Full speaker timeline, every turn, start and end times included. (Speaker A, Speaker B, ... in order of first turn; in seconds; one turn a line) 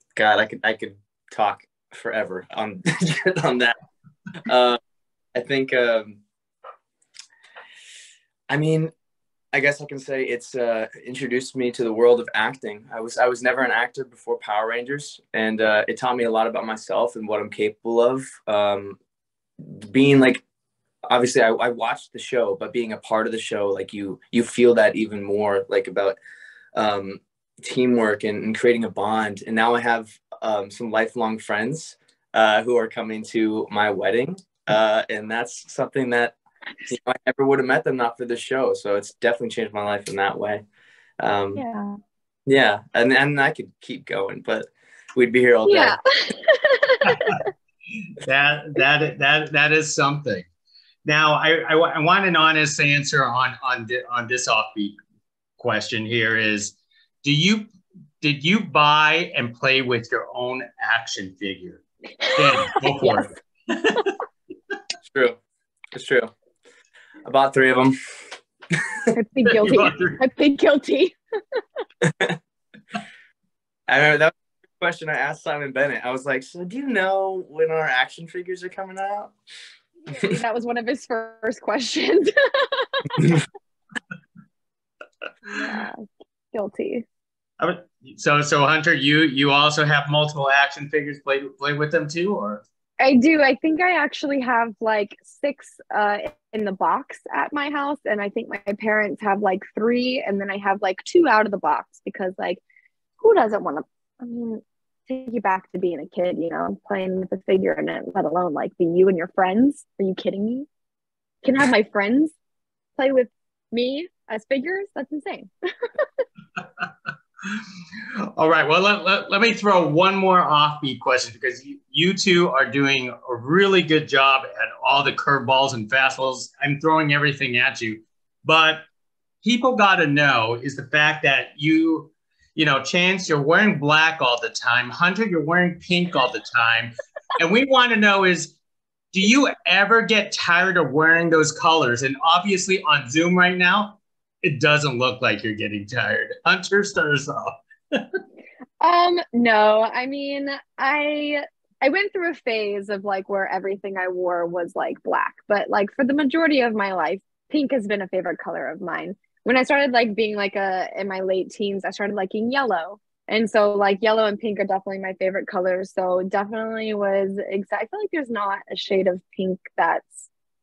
Speaker A: 0.1-3.8
Speaker A: 4.5-4.8
Speaker A: 5.3-6.2
Speaker A: 8.5-8.9
Speaker A: 9.5-19.0
Speaker A: 19.6-20.4
Speaker A: 21.1-26.2
Speaker A: 26.8-40.6
Speaker A: 41.2-41.6
Speaker B: 41.6-42.0
Speaker A: 42.5-46.0
Speaker B: 45.7-47.4
Speaker C: 47.1-47.4
Speaker C: 48.2-50.5
Speaker C: 51.1-55.0
Speaker C: 55.6-57.7
Speaker C: 58.2-64.1
Speaker B: 62.2-63.3
Speaker A: 65.1-65.4
Speaker A: 65.9-66.3
Speaker A: 67.3-68.0
Speaker B: 69.1-71.2
Speaker C: 69.5-70.2
Speaker A: 72.0-72.4
Speaker A: 73.9-79.3
Speaker B: 80.0-83.4
Speaker B: 85.5-87.0
Speaker C: 87.6-92.6
Speaker B: 93.0-102.6
Speaker B: 103.2-110.7
Speaker B: 111.4-112.3
Speaker B: 113.0-115.5
Speaker C: 118.3-128.8
Speaker C: 129.4-138.6
Speaker C: 139.1-148.2
Speaker B: 148.8-170.3